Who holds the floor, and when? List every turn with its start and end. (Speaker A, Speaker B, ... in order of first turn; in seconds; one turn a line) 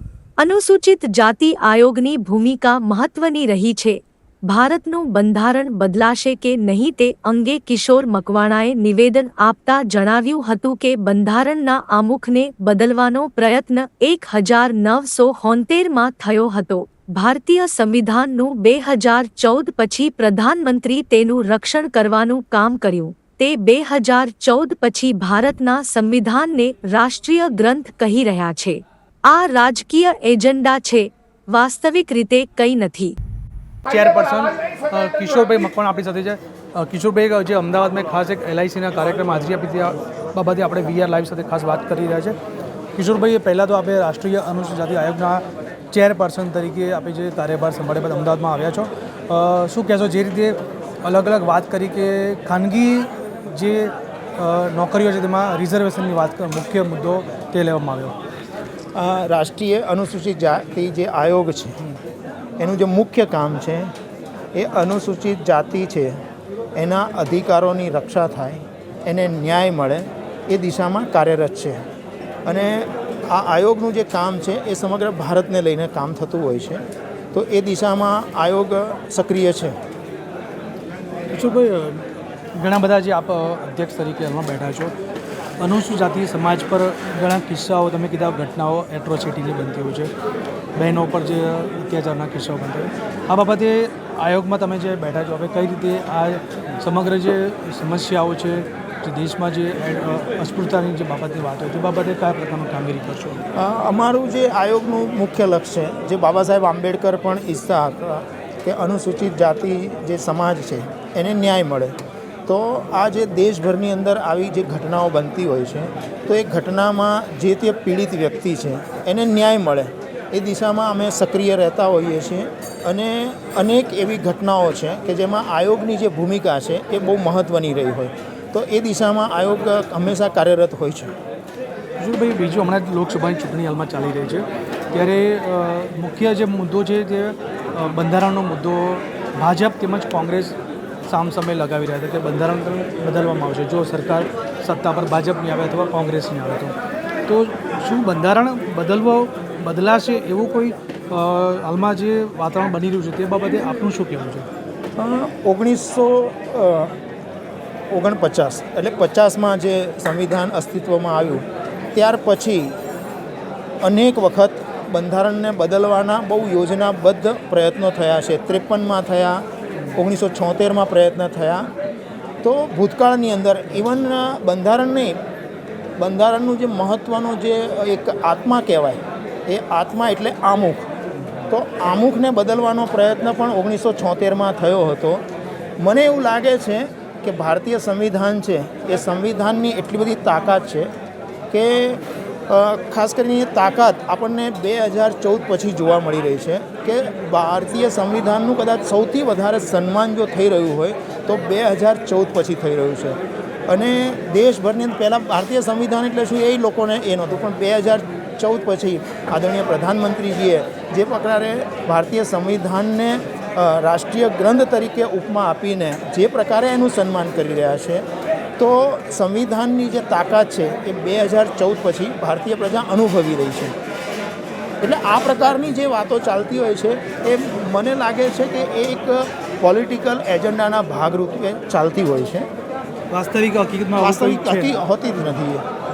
Speaker A: 0.4-33.1
Speaker B: 33.9-42.4
Speaker B: 43.0-58.2
Speaker C: 59.0-62.0
Speaker C: 62.6-63.9
Speaker C: 64.5-66.2
Speaker C: 66.8-71.8
Speaker C: 72.5-79.8
Speaker B: 81.3-82.0
Speaker B: 82.6-84.9
Speaker B: 85.6-90.1
Speaker B: 90.8-103.4
Speaker C: 103.5-112.0
Speaker C: 112.5-131.1
Speaker B: 132.0-146.8
Speaker B: 147.3-154.5
Speaker C: 155.0-157.0
Speaker C: 157.9-162.8
Speaker C: 163.8-169.4
Speaker C: 169.9-171.7
Speaker C: 172.4-175.2
Speaker C: 176.0-180.9
Speaker C: 181.5-185.2
Speaker C: 185.8-190.9
Speaker C: 191.5-218.0
Speaker C: 218.6-223.8
Speaker C: 224.8-232.5
Speaker B: 233.1-234.8
Speaker C: 234.0-235.7